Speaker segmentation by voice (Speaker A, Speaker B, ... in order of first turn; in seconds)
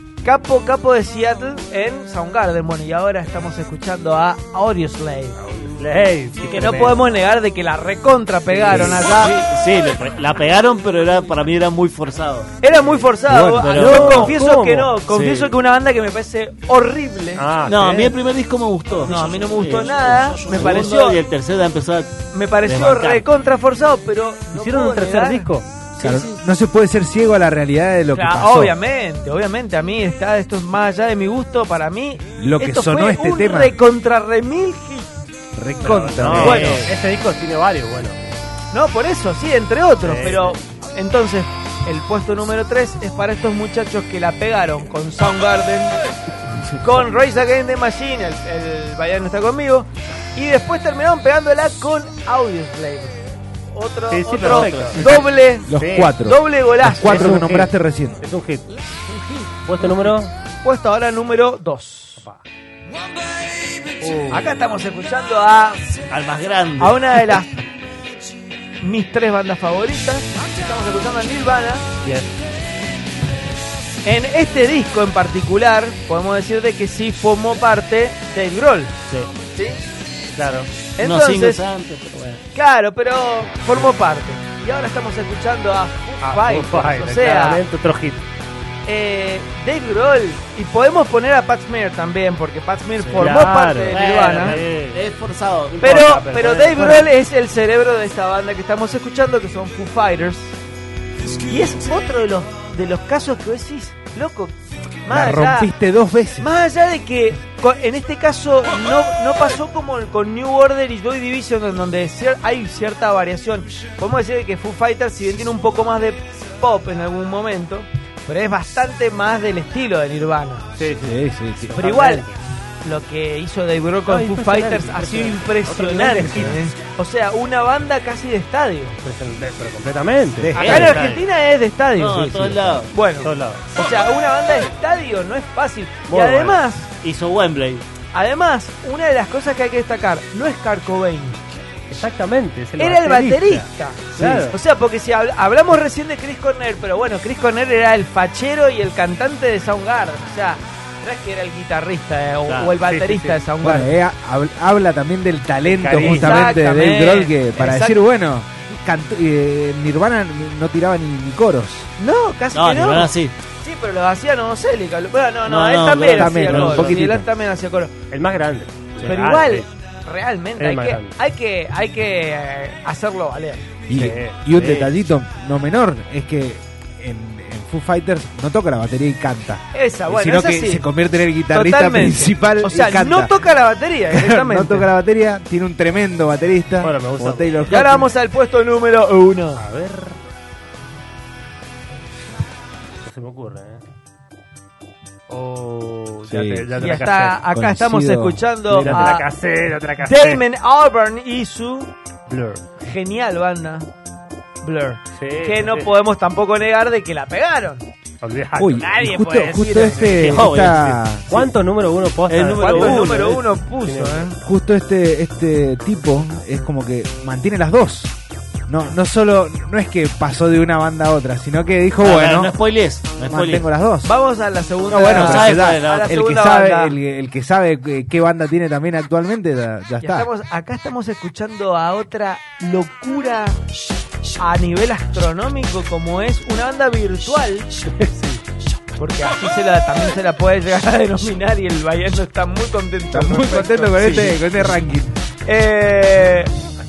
Speaker A: 0.2-5.4, 6.5-9.3, 12.6-17.5, 19.0-21.2, 22.3-26.3, 28.1-35.1, 36.4-36.9, 38.7-46.0, 46.8-57.4, 59.1-60.0, 60.6-62.2, 64.3-66.0, 66.8-67.6, 68.8-71.8, 74.0-78.9, 79.5-79.8, 81.0-81.6, 82.5-87.6, 88.8-94.6, 95.8-100.6, 101.4-105.7, 106.4-120.7, 121.7-122.3, 122.8-129.0, 130.5-136.9, 138.1-141.4, 142.8-154.0, 155.9-158.0, 162.0-167.9, 169.0-173.7, 179.7-180.8, 181.5-184.9, 187.7-189.6, 196.7-199.3, 200.0-201.9, 202.8-203.9, 204.6-207.8, 208.8-210.3, 212.6-214.3, 224.0-227.0, 230.0-233.6, 234.4-237.7, 239.0-244.4, 245.4-246.5
Speaker B: 5.4-7.1, 8.7-9.0, 12.7-13.1, 13.7-15.5, 17.4-18.1, 24.5-25.7, 35.8-38.2, 40.0-40.6, 54.1-55.1, 55.8-56.1, 57.0-58.7, 59.6-60.3, 64.0-64.5, 72.0-72.3, 80.3-80.7, 86.2-88.2, 93.1-95.0, 95.7-97.1, 120.8-122.3, 124.1-126.6, 129.0-130.9, 133.2-133.6, 136.1-136.6, 141.9-144.6, 152.7-153.4, 155.6-156.5, 166.4-167.1, 168.1-169.7, 170.6-171.1, 173.9-174.5, 186.8-188.1, 189.6-190.2, 193.0-193.8, 195.3-197.4, 198.7-200.4, 202.3-202.6, 205.1-205.9, 208.2-210.7, 211.2-214.4, 237.8-238.4
Speaker C: 8.6-12.5, 13.6-14.4, 17.6-23.2, 36.1-36.9, 54.4-55.2, 66.1-67.2, 81.0-82.4, 93.0-96.0, 130.5-131.2, 131.9-132.9, 137.0-137.8, 152.4-152.7, 162.5-163.3, 165.4-166.9, 174.5-174.9, 210.1-211.0, 212.3-213.4, 222.0-223.7, 225.1-226.1
Speaker D: 8.7-9.0, 13.3-13.8, 26.0-28.8, 32.4-33.8, 35.5-36.8, 55.6-58.2, 105.1-106.5, 121.0-121.8, 130.4-131.0, 144.2-144.5, 153.6-161.9, 166.1-167.2, 173.9-183.4, 184.1-188.0, 196.3-196.7, 197.5-199.1, 208.6-211.5, 214.4-218.1, 218.7-222.6, 223.2-224.1, 224.9-230.3, 243.1-245.1